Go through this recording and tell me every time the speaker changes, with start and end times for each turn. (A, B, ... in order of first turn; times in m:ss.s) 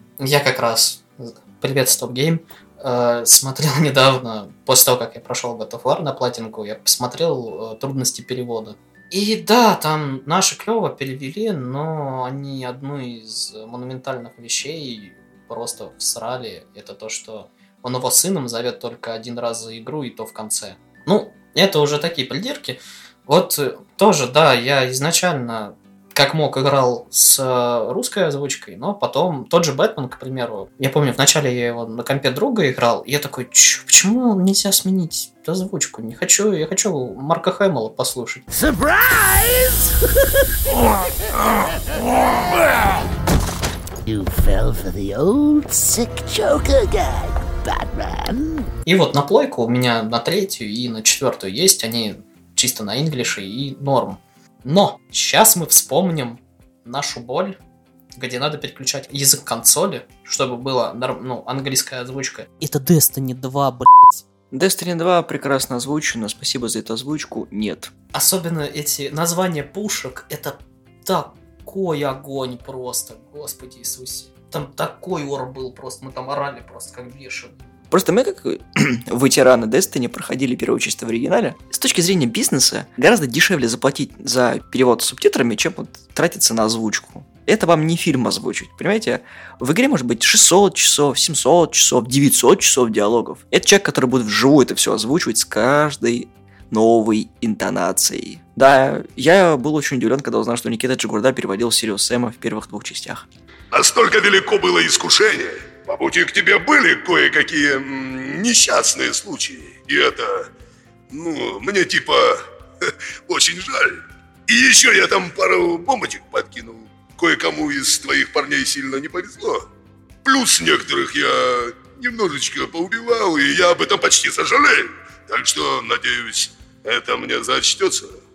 0:00.2-0:38.4 A
0:38.5-0:39.9 B
0:41.3-0:42.8 B
0:44.0-0:48.6 B
0:48.8-0:57.6 A
0:58.2-1:04.2 A
1:04.5-1:07.9 C
1:08.1-1:17.5 A
1:17.9-1:43.2 C
1:43.7-1:50.5 D
1:51.1-1:52.4 D
1:53.3-1:54.0 D
1:54.5-1:59.6 D
2:00.2-2:08.1 D